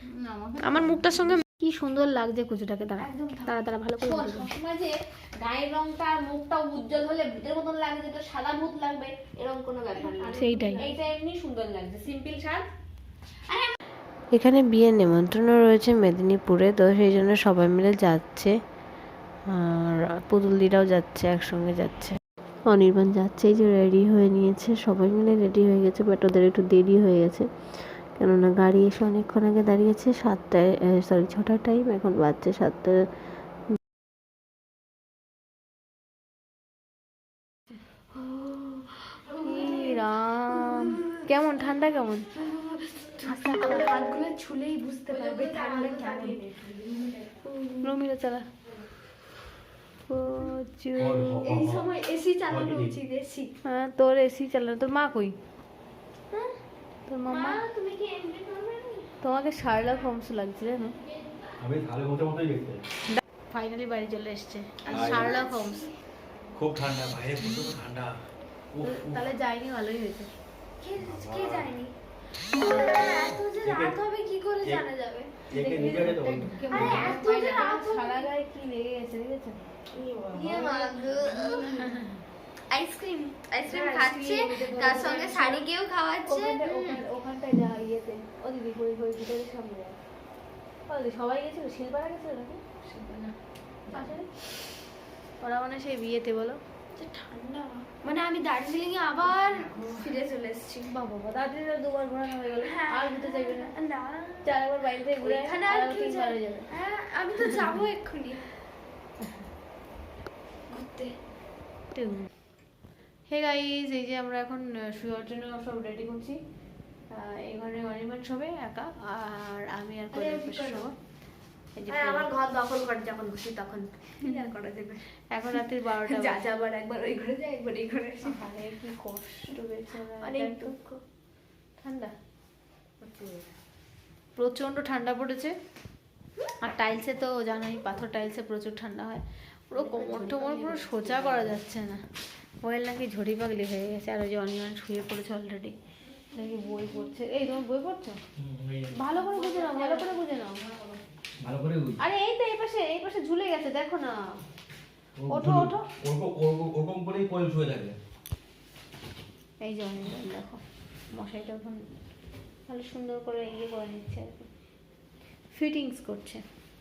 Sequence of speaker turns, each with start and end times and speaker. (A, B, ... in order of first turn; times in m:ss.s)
0:00.2-0:01.4 A
0:00.6-0:01.4 B
0:01.6-0:04.5 C
0:03.1-0:12.7 A
0:10.2-0:10.9 C
0:14.3-0:18.6 D
0:19.5-0:33.0 D
0:38.2-0:39.9 B
0:39.4-0:42.3 C
0:42.3-0:46.4 B
0:43.2-0:44.1 C
0:45.1-0:47.4 A
0:45.5-0:46.3 C
0:47.4-0:47.9 B
0:47.8-0:48.5 C
0:50.1-0:51.3 C
0:51.0-0:51.9 E
0:51.0-0:53.5 B
0:52.4-0:53.0 E
0:53.6-0:55.4 C
0:56.3-0:56.6 B
0:57.1-0:57.6 C
0:57.3-0:59.1 B
0:59.2-1:01.0 C
1:01.6-1:02.8 E
1:03.1-1:05.9 C
1:04.9-1:05.9 B
1:04.9-1:05.4 E
1:06.6-1:08.1 E
1:08.7-1:09.3 E
1:08.8-1:10.3 C
1:10.8-1:11.9 B
1:11.0-1:11.7 E
1:12.6-1:15.3 B
1:13.6-1:14.0 E
1:15.5-1:17.2 E
1:15.6-1:17.8 A
1:15.9-1:16.1 C
1:16.7-1:18.3 B
1:16.7-1:19.6 C
1:20.0-1:21.8 A
1:20.3-1:21.9 B
1:21.8-1:22.1 C
1:22.7-1:26.9 B
1:23.7-1:25.6 C
1:26.3-1:29.9 C
1:30.9-1:33.3 C
1:33.9-1:34.2 C
1:35.4-1:36.6 C
1:37.0-1:37.3 B
1:37.2-1:37.8 C
1:37.9-1:41.0 B
1:39.5-1:39.8 A
1:41.0-1:43.7 C
1:42.6-1:44.5 B
1:44.4-1:46.7 C
1:45.2-1:48.5 B
1:50.7-1:51.2 B
1:51.9-1:52.3 C
1:53.3-1:56.4 C
1:57.1-2:00.9 C
2:00.1-2:00.9 B
2:01.8-2:02.3 C
2:01.9-2:05.0 B
2:03.0-2:03.8 A
2:04.2-2:04.5 C
2:05.3-2:06.4 C
2:06.1-2:08.4 B
2:08.2-2:10.7 C
2:10.2-2:11.0 B
2:11.8-2:12.1 C
2:13.0-2:13.5 A
2:14.4-2:15.5 C
2:16.6-2:22.0 C
2:19.8-2:21.6 A
2:22.6-2:25.8 C
2:26.3-2:28.2 C
2:28.4-2:28.9 E
2:29.0-2:30.6 C
2:29.2-2:31.0 A
2:31.4-2:32.0 E
2:32.0-2:34.4 C
2:35.2-2:38.0 E
2:35.3-2:35.9 C
2:39.6-2:41.8 C
2:42.7-2:44.5 C
2:45.5-2:46.4 C